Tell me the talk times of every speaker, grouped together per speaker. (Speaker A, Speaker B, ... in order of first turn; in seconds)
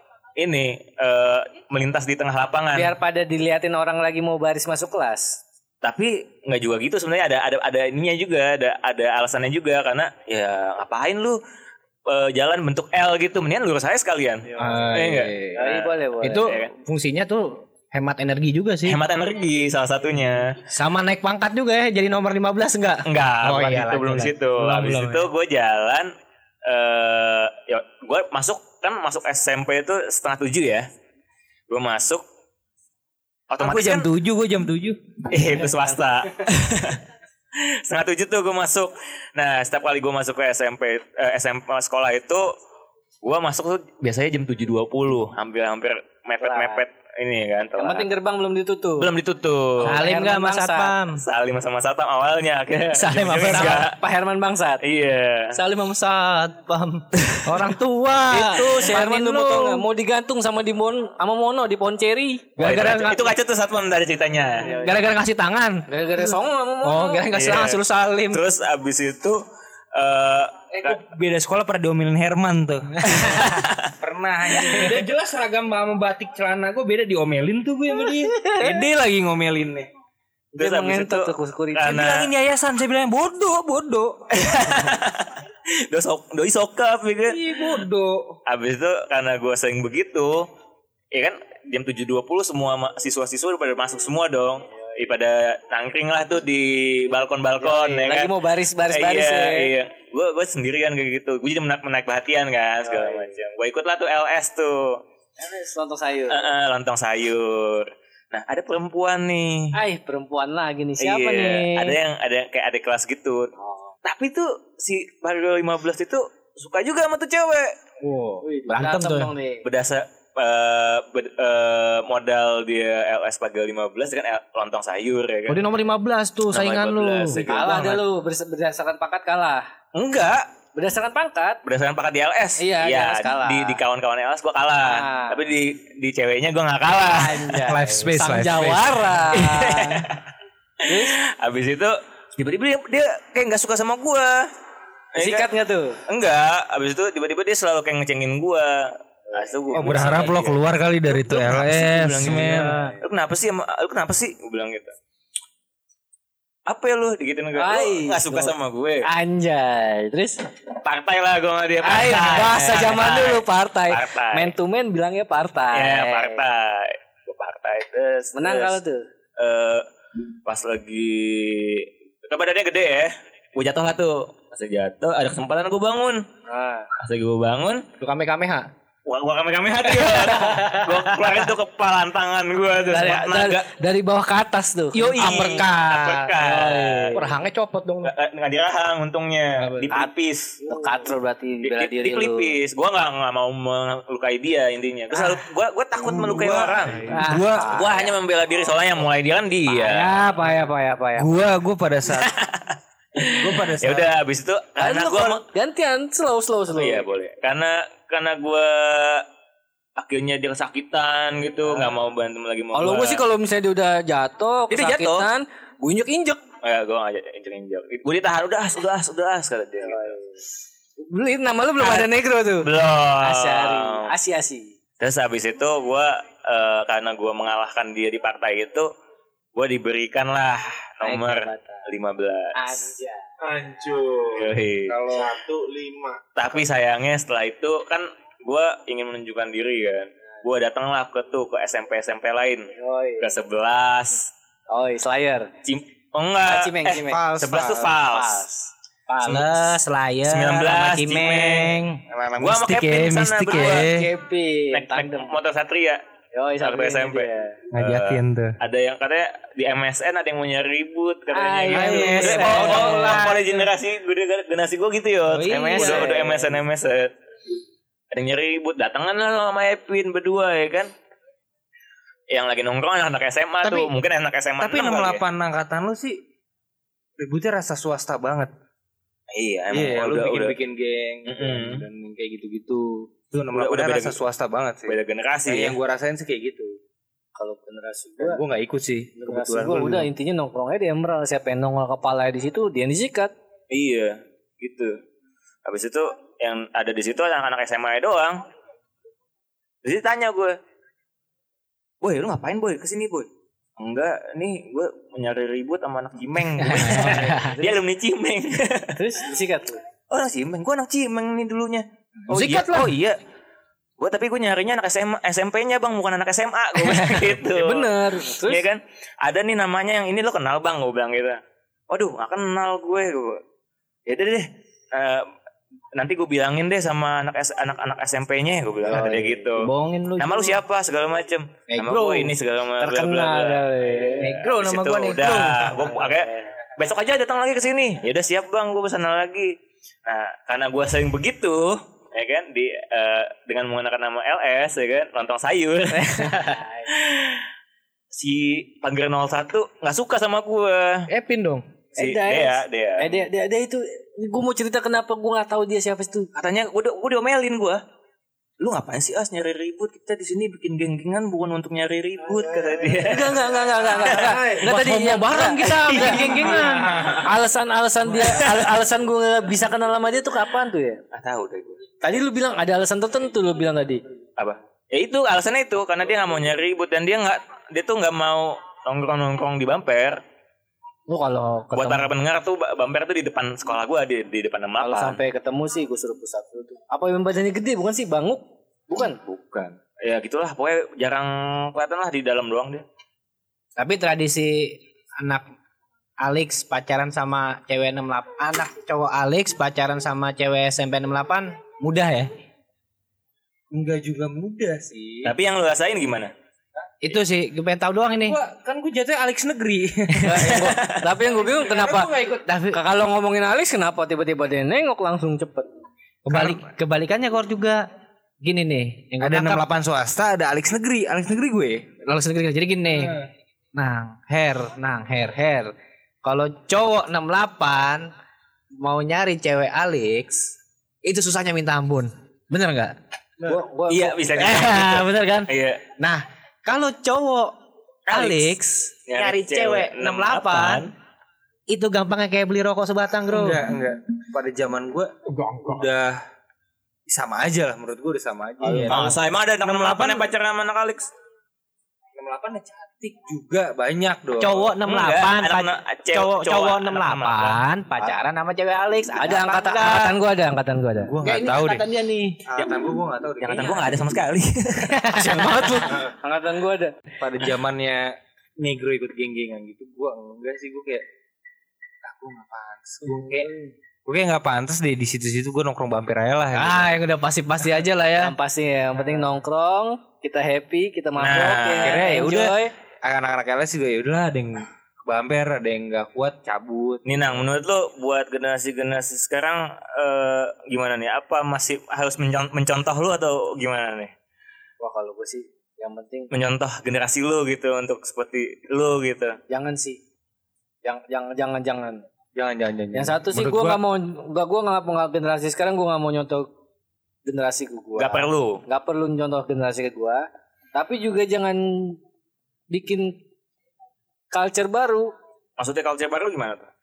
Speaker A: 0.4-2.9, 5.8-11.4, 12.1-16.7, 18.9-20.6, 23.1-26.1, 26.6-30.9, 31.7-32.2, 33.5-34.1, 35.3-37.0, 37.5-42.5, 43.2-48.1, 49.0-50.0, 51.2-54.0, 54.8-55.5, 57.2-57.6, 62.6-64.7, 67.3-67.8, 68.3-69.4, 69.9-71.0, 73.2-73.9, 80.6-82.3, 84.3-87.5, 88.5-90.5, 91.1-98.3, 98.9-105.0, 106.3-109.7, 111.0-113.5, 114.0-117.7, 119.6-125.6, 126.5-128.0, 129.9-130.5, 131.6-137.6, 139.3-140.2, 140.8-144.5, 145.1-145.5, 146.1-154.9, 156.7-159.1, 160.8-164.5, 165.7-168.8, 169.4-169.8, 170.4-176.2, 177.0-177.9, 179.1-183.7, 185.2-187.2, 188.0-190.6, 191.6-197.1, 197.7-200.2, 202.1-202.8, 203.8-205.4, 206.7-209.2, 210.0-213.2, 214.7-215.3, 216.6-220.2, 221.8-222.1, 222.6-224.1, 225.0-228.9, 229.5-232.5, 234.3-235.0, 236.3-244.3, 245.6-248.4, 250.2-251.8, 252.4-253.9, 254.7-256.0, 256.6-267.1, 268.1-270.9, 272.3-275.2, 279.3-280.6, 281.2-281.8, 283.5-284.2, 284.9-285.8, 293.7-295.0, 295.6-298.4, 299.8-300.6, 302.0-309.0, 310.1-313.2, 314.0-323.4, 324.1-325.3, 325.9-339.5, 340.1-347.5, 348.1-351.1, 352.0-353.2, 356.3-357.8, 358.6-363.4, 366.0-366.3, 371.1-371.8, 374.4-380.2, 381.7-385.2, 389.0-392.8, 405.2-406.3, 410.3-411.0, 433.9-435.8, 438.1-438.5, 439.1-440.9, 448.9-451.1, 454.8-457.6, 463.4-465.1, 481.2-482.1, 487.1-494.1, 496.3-499.4, 508.0-508.6, 515.6-516.7
Speaker B: 2.7-5.4, 15.5-16.4, 46.4-46.8, 47.8-49.1, 49.8-51.0, 53.4-54.8, 58.3-62.6, 65.9-67.3, 80.5-82.0, 97.6-99.7, 102.8-103.3, 105.4-106.5, 109.7-112.0, 118.4-119.6, 127.4-129.7, 130.7-131.6, 132.6-133.8, 134.8-135.4, 137.0-140.0, 140.8-141.1, 145.2-146.0, 149.3-150.3, 152.3-153.0, 157.6-160.4, 161.8-166.4, 168.3-169.0, 176.4-176.9, 182.9-185.6, 186.4-187.3, 190.6-192.5, 197.1-198.1, 199.7-201.3, 204.8-207.1, 212.7-216.4, 219.8-220.4, 221.0-222.7, 223.2-224.8, 231.0-231.8, 232.5-233.3, 242.8-243.3, 244.7-245.5, 246.4-247.3, 248.0-249.8, 253.6-255.3, 256.3-257.6, 261.3-263.6, 265.4-266.6, 287.4-288.4, 289.1-293.3, 306.8-307.8, 308.9-309.8, 312.3-312.6, 316.8-318.6, 332.8-334.3, 351.9-356.3, 363.0-371.0, 372.0-374.0, 381.1-382.1, 384.8-389.2, 410.2-412.1, 412.7-415.7, 433.4-434.6, 459.2-461.1, 466.0-467.0, 478.2-482.7, 494.8-496.3, 499.5-500.0, 500.8-502.1, 502.9-506.5, 507.2-512.0, 512.7-513.2, 514.3-515.1
Speaker C: 14.6-15.2, 16.2-19.0, 20.7-25.3, 49.8-51.2, 52.9-53.8, 55.5-59.9, 62.6-63.3, 64.7-68.4, 73.1-73.3, 118.0-119.3, 125.5-127.8, 178.0-178.7, 179.8-181.3, 184.9-186.4, 187.1-188.1, 249.2-252.0, 261.8-263.4, 273.6-273.9, 306.6-307.4, 312.3-312.9, 328.9-330.6, 331.7-332.3, 334.2-335.9, 345.9-346.6, 351.1-351.6, 364.6-367.1, 393.8-395.4, 396.2-402.3, 407.0-408.4, 412.4-412.8, 416.2-417.8, 418.4-419.7, 422.0-423.2, 423.7-425.7, 426.2-428.1, 428.8-432.9, 434.3-437.5, 438.1-440.8, 441.7-443.6, 448.6-450.2, 454.4-460.2, 461.2-462.6, 464.8-466.1, 476.5-478.3
Speaker D: 14.6-15.4, 33.6-35.0, 70.7-79.9, 81.9-84.3, 87.3-88.4, 137.6-139.0, 149.7-152.8, 196.0-197.8, 201.2-202.3, 203.2-204.1, 247.0-247.9, 252.1-254.1, 257.7-258.6, 261.7-263.2, 265.3-266.1, 274.6-276.2, 277.2-278.5, 279.7-286.8, 288.2-290.1, 403.7-405.3, 408.2-412.5, 416.3-416.6, 419.2-421.9, 443.3-446.2, 447.1-449.1, 452.1-454.7, 461.0-461.8, 462.5-464.1, 467.2-471.0, 472.0-473.5, 474.0-476.9, 481.8-487.3, 502.3-503.8
Speaker E: 233.4-236.2, 362.4-364.6